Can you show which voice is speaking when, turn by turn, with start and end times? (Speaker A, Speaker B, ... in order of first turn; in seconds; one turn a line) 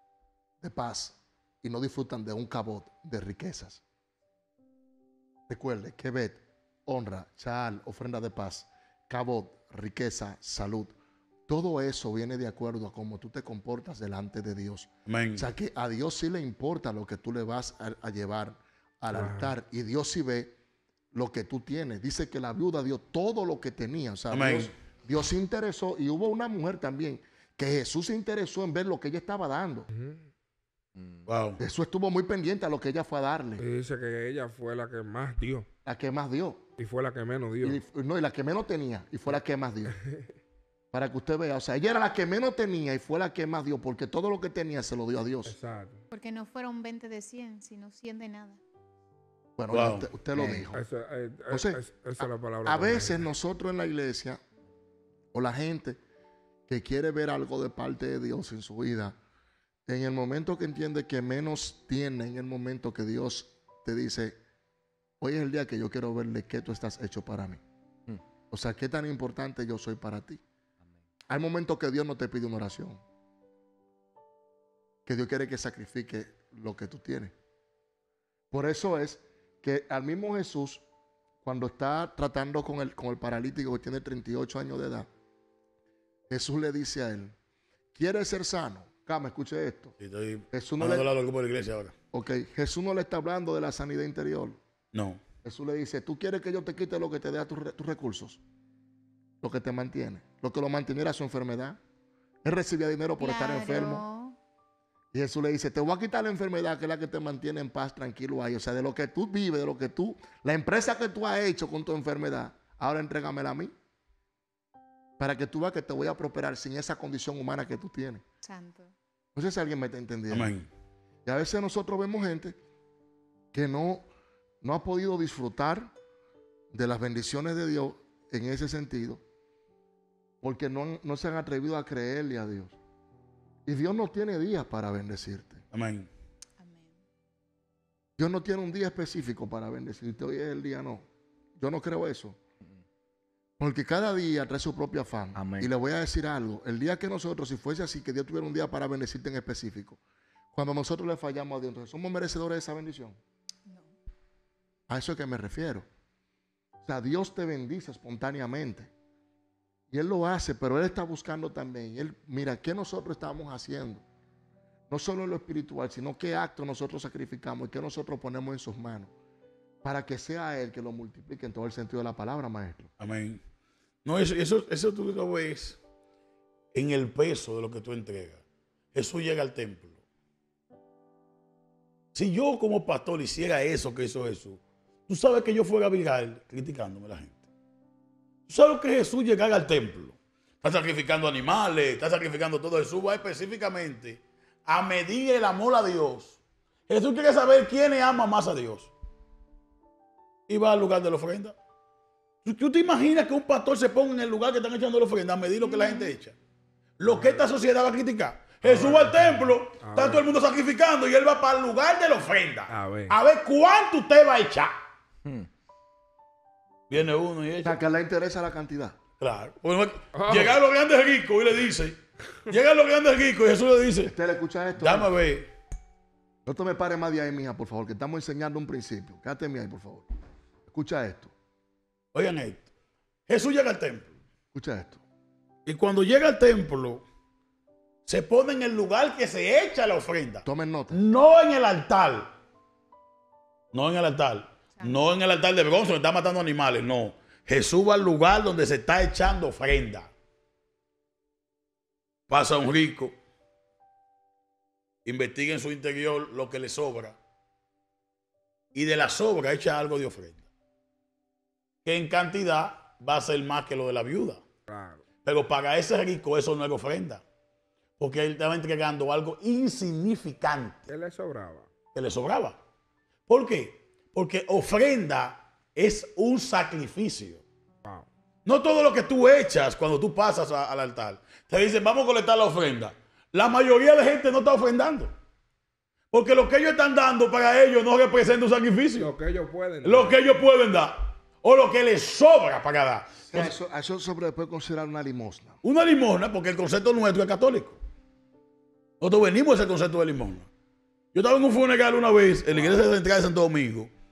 Speaker A: 0.6-3.8
Speaker A: 5.5-10.9
Speaker A: 11.5-20.6
Speaker B: 15.1-15.5
Speaker C: 19.1-19.5
Speaker A: 21.1-29.9
Speaker B: 24.3-24.7
Speaker C: 29.9-30.2
Speaker B: 31.2-31.6
Speaker A: 31.6-33.6
Speaker C: 33.6-35.7
Speaker A: 35.8-36.7
Speaker C: 36.8-37.8
Speaker A: 37.6-40.0
Speaker A: 40.9-45.5
Speaker C: 45.5-46.0
Speaker D: 46.1-48.6
Speaker A: 49.6-50.8
Speaker B: 49.7-50.1
Speaker C: 50.3-53.2
Speaker A: 51.5-54.4
Speaker A: 55.3-56.0
Speaker A: 56.7-59.2
Speaker A: 59.9-64.4
Speaker A: 65.2-67.6
Speaker A: 68.5-70.4
Speaker A: 71.3-73.0
Speaker A: 75.0-77.3
Speaker A: 78.5-80.8
Speaker A: 81.4-85.1
Speaker A: 86.3-87.3
Speaker A: 87.9-89.9
Speaker B: 90.0-91.9
Speaker A: 90.5-91.1
Speaker A: 92.1-94.6
Speaker B: 94.9-95.2
Speaker A: 95.4-98.4
Speaker A: 99.4-101.8
Speaker A: 102.4-104.0
Speaker D: 103.2-104.4
Speaker A: 105.1-113.7
Speaker A: 115.2-118.2
Speaker D: 118.4-118.9
Speaker A: 119.3-120.5
Speaker B: 120.3-120.7
Speaker A: 121.2-122.6
Speaker A: 123.5-124.0
Speaker A: 124.6-125.9
Speaker A: 126.7-129.2
Speaker A: 130.4-132.8
Speaker A: 133.7-135.6
Speaker B: 135.7-136.1
Speaker D: 136.6-137.0
Speaker A: 138.2-141.0
Speaker A: 141.6-142.4
Speaker A: 143.6-150.0
Speaker A: 150.5-153.2
Speaker D: 153.7-153.9
Speaker A: 154.9-155.8
Speaker A: 156.8-158.9
Speaker A: 159.9-164.0
Speaker A: 164.9-169.1
Speaker A: 169.8-172.9
Speaker B: 173.0-173.4
Speaker B: 174.0-175.8
Speaker B: 176.7-178.4
Speaker B: 178.9-180.0
Speaker B: 182.1-187.4
Speaker B: 188.5-198.9
Speaker B: 200.5-201.6
Speaker B: 202.4-206.3
Speaker D: 205.7-206.1
Speaker B: 207.0-214.8
Speaker C: 207.0-207.4
Speaker C: 208.6-210.2
Speaker C: 212.7-213.2
Speaker B: 216.9-217.8
Speaker A: 217.6-219.0
Speaker B: 219.2-224.1
Speaker C: 220.2-220.6
Speaker A: 224.0-225.2
Speaker B: 224.8-225.5
Speaker A: 226.4-230.1
Speaker A: 230.7-231.3
Speaker B: 232.1-232.7
Speaker B: 233.3-234.1
Speaker A: 234.5-235.0
Speaker B: 235.7-237.0
Speaker B: 238.1-242.3
Speaker A: 240.4-241.0
Speaker B: 243.7-250.1
Speaker B: 252.3-253.1
Speaker B: 255.0-257.2
Speaker B: 258.7-260.4
Speaker B: 261.8-264.4
Speaker C: 264.7-265.0
Speaker B: 265.2-267.2
Speaker B: 268.0-270.9
Speaker C: 270.9-271.7
Speaker B: 271.9-272.6
Speaker B: 273.3-277.4
Speaker B: 278.4-285.1
Speaker B: 286.1-289.1
Speaker C: 289.0-290.2
Speaker B: 289.8-293.5
Speaker A: 293.3-295.6
Speaker B: 295.6-297.8
Speaker B: 299.0-300.5
Speaker B: 301.1-303.9